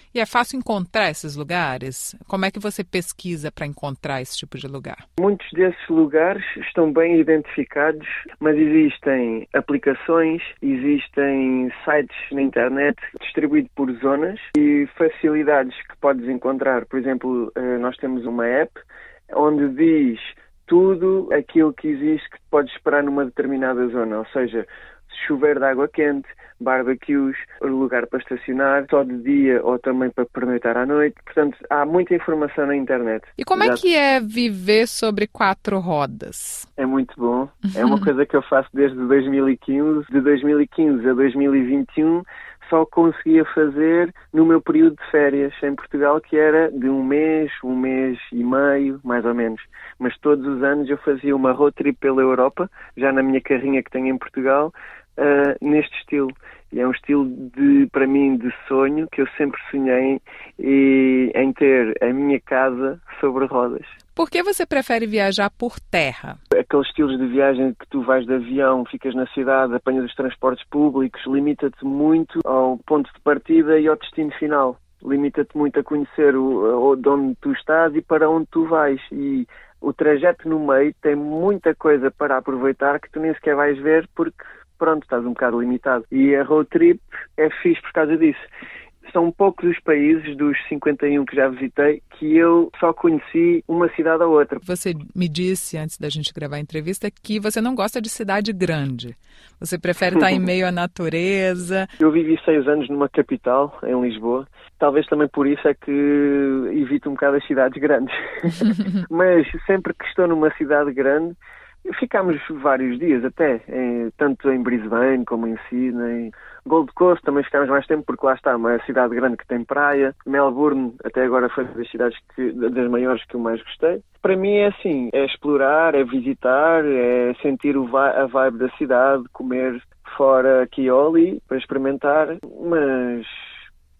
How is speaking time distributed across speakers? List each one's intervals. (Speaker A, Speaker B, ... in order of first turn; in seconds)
Speaker A: 0.1-5.0, 33.4-36.7, 64.1-66.4, 94.6-101.9
Speaker B: 5.2-18.8, 19.3-33.8, 36.8-63.9, 66.5-88.4, 89.0-94.6, 100.1-100.4, 102.0-133.4